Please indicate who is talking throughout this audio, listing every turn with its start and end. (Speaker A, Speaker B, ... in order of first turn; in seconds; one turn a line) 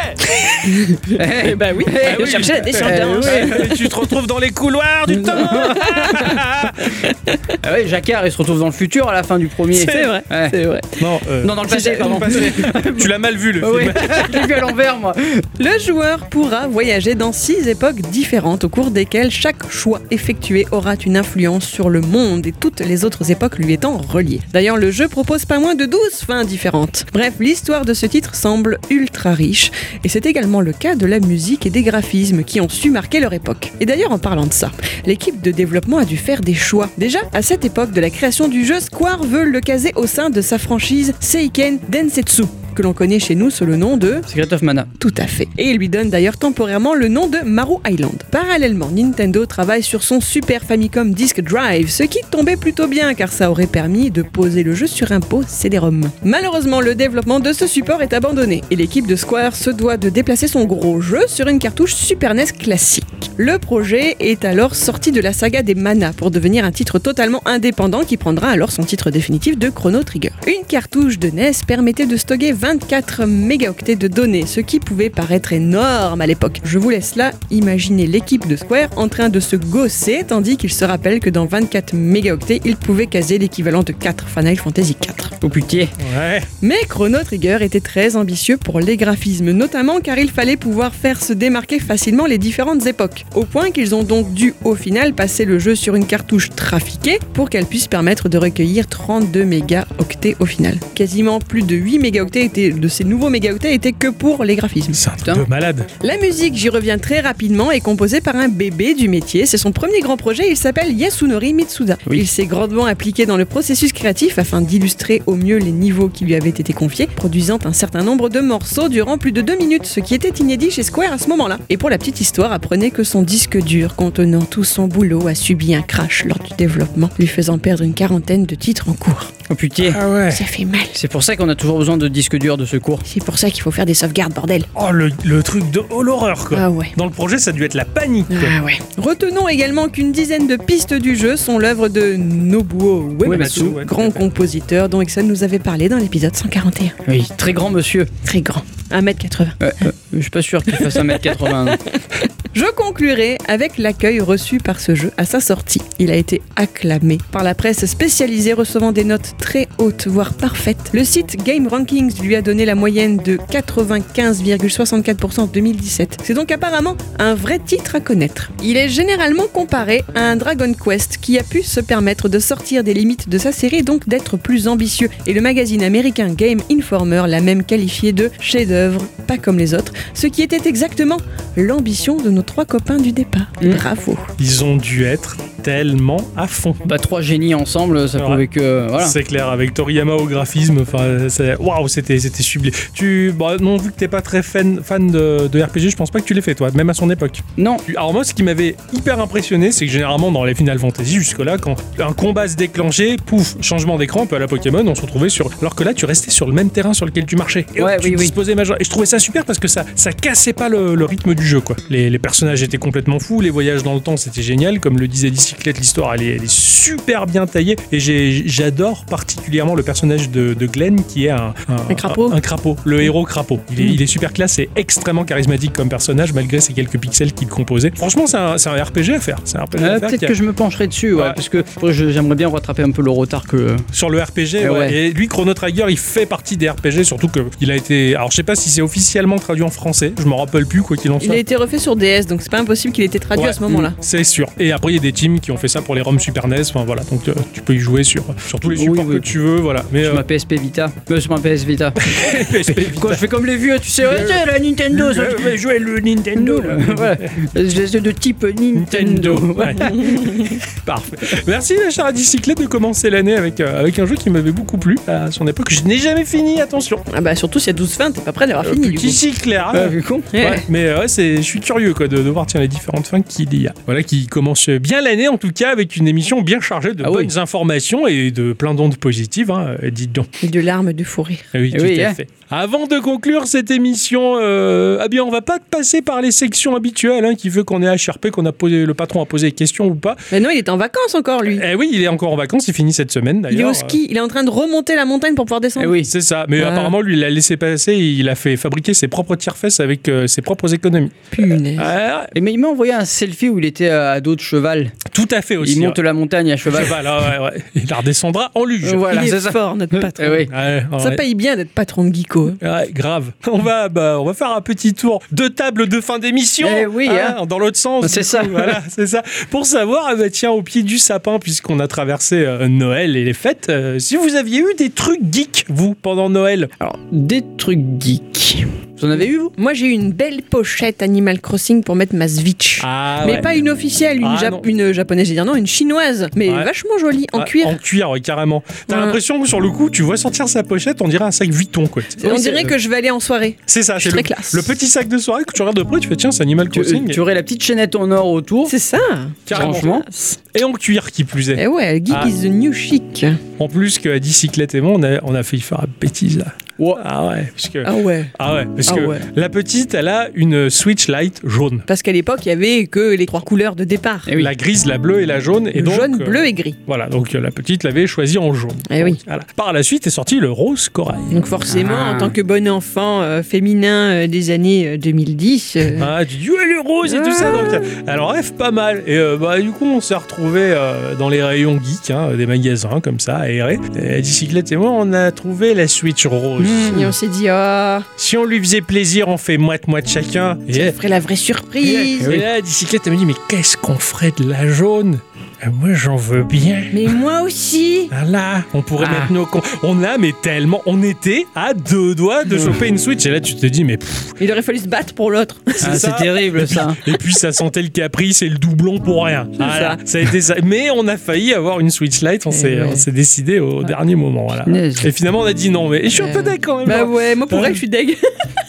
Speaker A: 0.4-3.8
Speaker B: 1.1-3.8
Speaker C: 2.0-7.0
Speaker B: 5.1-5.8
Speaker A: 5.5-6.4
Speaker A: 7.0-7.4
Speaker B: 7.6-10.6
Speaker C: 9.8-10.1
Speaker A: 9.8-11.0
Speaker C: 11.0-14.6
Speaker B: 11.4-15.5
Speaker A: 15.6-44.3
Speaker B: 44.3-44.9
Speaker A: 45.0-85.3
Speaker B: 85.4-85.9
Speaker C: 86.0-86.5
Speaker A: 86.6-105.0
Speaker C: 104.9-105.9
Speaker A: 106.0-129.3
Speaker B: 129.5-130.0
Speaker C: 129.8-130.5
Speaker A: 130.3-131.0
Speaker B: 130.9-133.0
Speaker A: 133.1-134.7
Speaker C: 134.8-138.5
Speaker A: 136.5-136.9
Speaker A: 138.3-147.0
Speaker B: 143.2-143.8
Speaker C: 143.2-144.3
Speaker B: 147.1-148.1
Speaker A: 148.2-149.6
Speaker B: 149.6-151.8
Speaker A: 150.8-151.8
Speaker A: 152.5-184.3
Speaker C: 184.4-186.8
Speaker B: 186.8-189.2
Speaker C: 188.2-188.4
Speaker C: 189.0-230.3
Speaker B: 197.6-197.8
Speaker B: 207.8-208.3
Speaker A: 221.9-222.4
Speaker B: 229.8-233.9
Speaker C: 233.9-241.4
Speaker B: 234.6-235.0
Speaker A: 241.2-244.0
Speaker C: 243.3-250.2
Speaker B: 248.7-249.3
Speaker B: 250.0-255.6
Speaker C: 252.1-253.2
Speaker C: 254.0-257.3
Speaker B: 256.4-260.4
Speaker C: 258.8-267.1
Speaker A: 267.1-269.2
Speaker C: 268.6-280.3
Speaker B: 269.7-270.3
Speaker A: 270.3-270.6
Speaker B: 277.0-277.3
Speaker A: 280.4-281.5
Speaker C: 281.5-290.2
Speaker B: 281.7-282.2
Speaker A: 290.3-291.6
Speaker C: 291.5-294.0
Speaker A: 293.5-296.0
Speaker B: 295.8-296.1
Speaker C: 296.0-302.3
Speaker A: 296.6-296.9
Speaker A: 301.3-301.9
Speaker B: 302.4-305.0
Speaker C: 305.1-306.0
Speaker B: 305.6-307.1
Speaker C: 306.7-309.3
Speaker B: 308.8-310.5
Speaker A: 309.1-312.6
Speaker C: 310.5-311.2
Speaker C: 312.6-326.7
Speaker B: 316.6-317.4
Speaker B: 318.0-318.8
Speaker B: 326.8-329.5
Speaker A: 329.6-337.8
Speaker C: 332.8-333.6
Speaker C: 334.2-334.7
Speaker C: 337.4-342.4
Speaker A: 338.9-339.2
Speaker A: 342.2-344.7
Speaker B: 342.3-342.7
Speaker C: 343.7-347.2
Speaker B: 346.7-348.7
Speaker A: 348.7-350.4
Speaker C: 349.5-352.3
Speaker B: 349.5-350.1
Speaker A: 351.6-353.4
Speaker C: 353.6-361.9
Speaker A: 357.8-358.3
Speaker A: 358.9-359.3
Speaker A: 361.9-364.3
Speaker B: 364.3-364.5
Speaker C: 364.4-371.4
Speaker A: 365.8-366.8
Speaker A: 368.9-369.2
Speaker A: 371.3-376.1
Speaker B: 371.7-372.4
Speaker C: 376.0-387.1
Speaker A: 377.1-377.9
Speaker B: 386.6-387.1
Speaker A: 386.9-388.1
Speaker C: 388.2-391.0
Speaker A: 390.7-392.4
Speaker C: 391.8-397.1
Speaker A: 396.9-398.1
Speaker C: 398.1-404.4
Speaker B: 399.0-399.3
Speaker A: 404.4-406.0
Speaker C: 405.8-417.8
Speaker B: 405.8-407.0
Speaker A: 409.6-410.0
Speaker A: 412.5-413.0
Speaker B: 414.7-415.1
Speaker A: 416.2-418.6